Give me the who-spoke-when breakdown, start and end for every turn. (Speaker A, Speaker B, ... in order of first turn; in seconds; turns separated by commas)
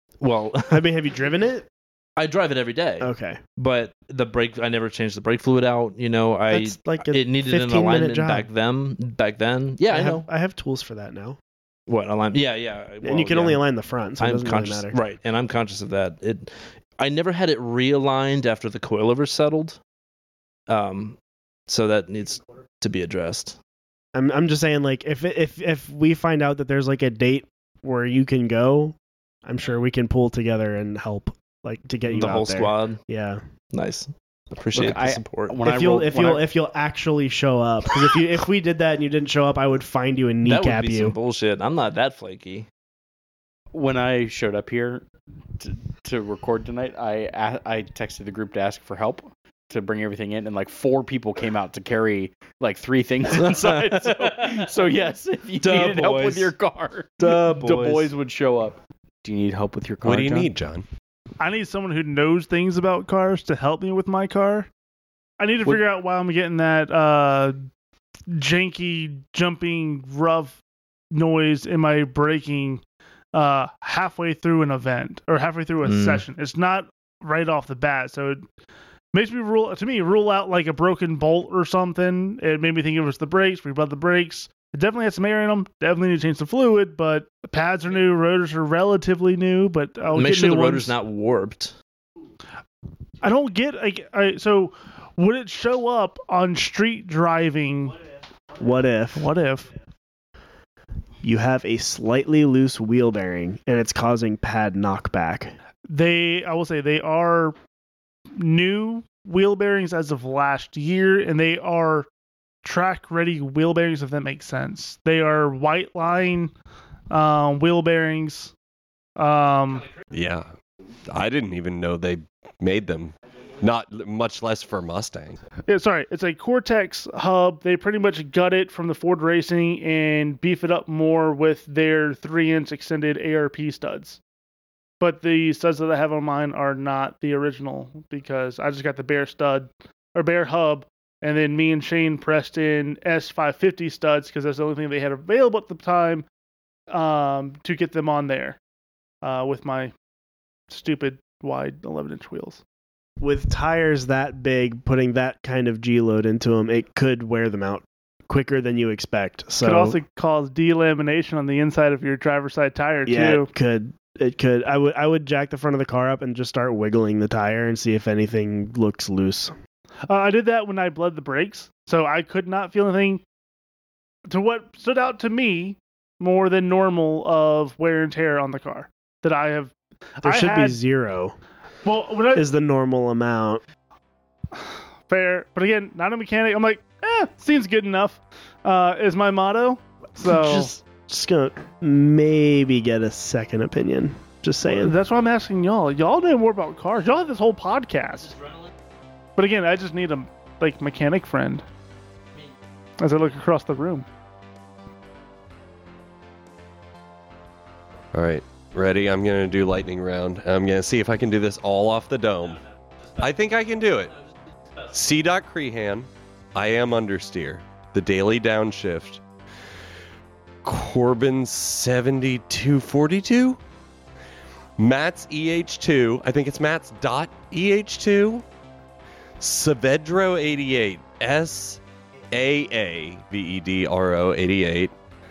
Speaker A: 0.2-0.9, Speaker B: 0.7-1.7, Speaker A: 2.2-10.3, Speaker B: 3.0-3.4, Speaker B: 6.5-8.5, Speaker B: 9.8-11.4, Speaker A: 11.9-13.6, Speaker B: 13.0-15.0, Speaker A: 14.2-19.8, Speaker A: 20.7-21.2, Speaker A: 21.7-23.6, Speaker B: 24.1-28.9, Speaker B: 29.4-33.4, Speaker A: 32.1-33.0, Speaker A: 33.7-35.6, Speaker C: 34.7-36.5, Speaker B: 35.6-41.1, Speaker A: 40.4-42.7, Speaker C: 43.7-45.0, Speaker C: 45.6-60.5, Speaker A: 53.3-54.7, Speaker A: 55.6-56.5, Speaker A: 57.2-58.1, Speaker D: 60.0-60.9, Speaker E: 61.4-64.7, Speaker E: 65.4-67.6, Speaker E: 68.3-70.6, Speaker E: 71.1-72.8, Speaker E: 73.3-78.4, Speaker A: 75.8-76.2, Speaker E: 79.1-90.9, Speaker A: 90.1-91.7, Speaker E: 93.2-98.0, Speaker B: 98.6-99.3, Speaker E: 99.1-99.7, Speaker B: 101.2-105.5, Speaker E: 105.9-107.5, Speaker E: 108.3-112.1, Speaker E: 112.6-116.5, Speaker E: 117.1-118.5, Speaker E: 119.2-119.9, Speaker D: 120.1-120.5, Speaker D: 121.1-125.4, Speaker E: 125.7-134.2, Speaker E: 135.0-146.2, Speaker E: 146.9-148.6, Speaker E: 149.2-149.9, Speaker E: 150.7-152.6, Speaker B: 153.2-160.0, Speaker E: 159.6-163.5, Speaker B: 163.1-169.5, Speaker E: 170.1-173.2, Speaker E: 174.3-180.8, Speaker B: 180.2-181.4, Speaker E: 181.8-182.4, Speaker B: 182.3-183.6, Speaker E: 184.5-190.7, Speaker B: 190.2-194.9, Speaker E: 194.7-198.4, Speaker E: 199.3-201.6, Speaker E: 203.0-204.1, Speaker D: 208.1-212.6, Speaker D: 213.2-214.1, Speaker D: 214.9-219.2, Speaker D: 220.6-223.6, Speaker D: 224.8-228.4, Speaker D: 229.4-234.9